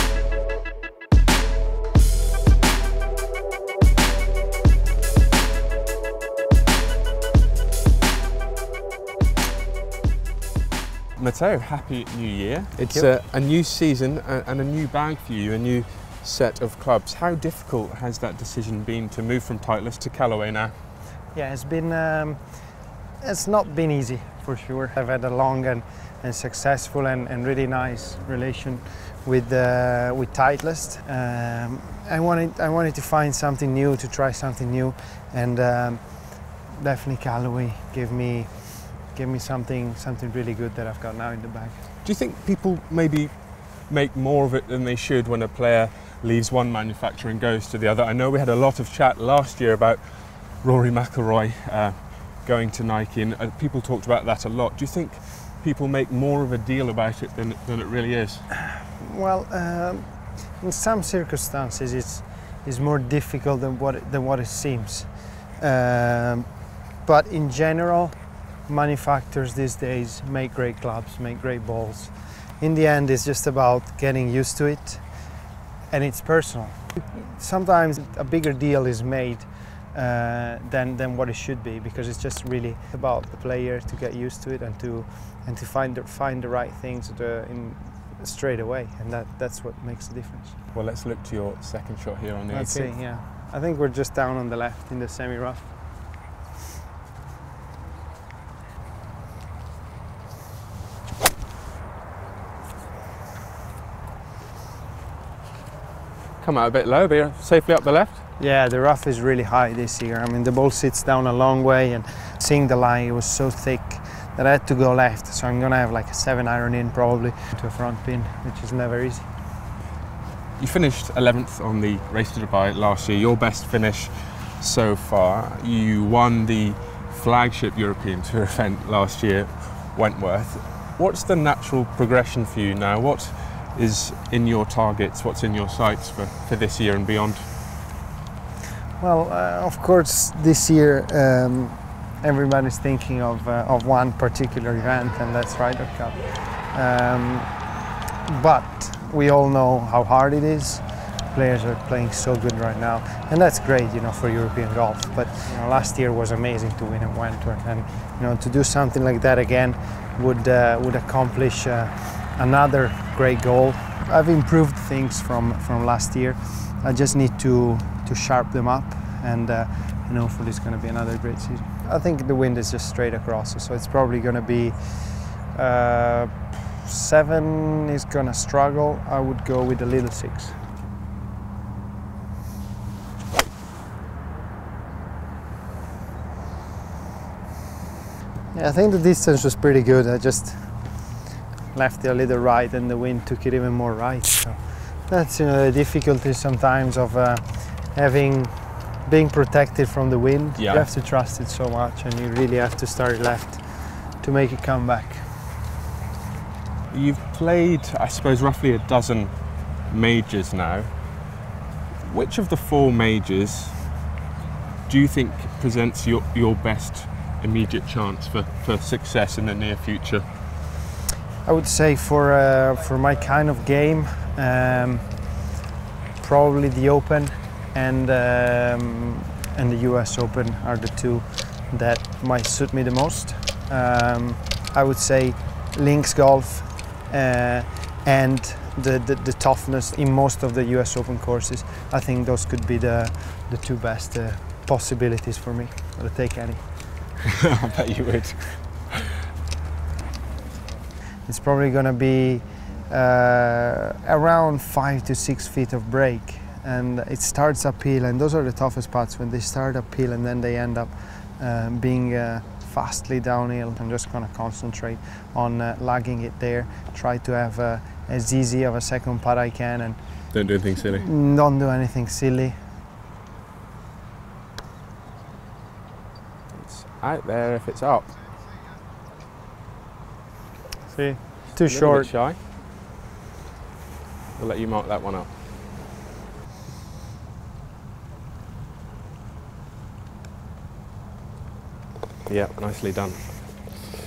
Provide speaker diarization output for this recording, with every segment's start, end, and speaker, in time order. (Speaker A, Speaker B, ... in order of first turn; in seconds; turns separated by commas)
Speaker A: 11.2-20.7, Speaker B: 12.8-13.1, Speaker B: 21.3-41.9, Speaker A: 42.0-58.5, Speaker B: 58.9-90.6, Speaker A: 90.7-93.0, Speaker B: 92.5-95.8, Speaker A: 106.4-108.2, Speaker B: 108.4-119.4, Speaker A: 120.6-137.5, Speaker B: 139.0-180.7, Speaker B: 188.5-205.5, Speaker A: 200.6-200.9, Speaker A: 206.9-211.3, Speaker A: 212.0-214.0, Speaker A: 214.9-220.3, Speaker B: 221.4-225.5, Speaker B: 226.2-247.0, Speaker A: 247.3-248.9, Speaker B: 251.2-272.7, Speaker A: 270.3-271.1, Speaker A: 276.5-278.1, Speaker B: 280.9-282.1, Speaker A: 281.6-282.4, Speaker A: 284.4-285.3, Speaker A: 292.2-293.8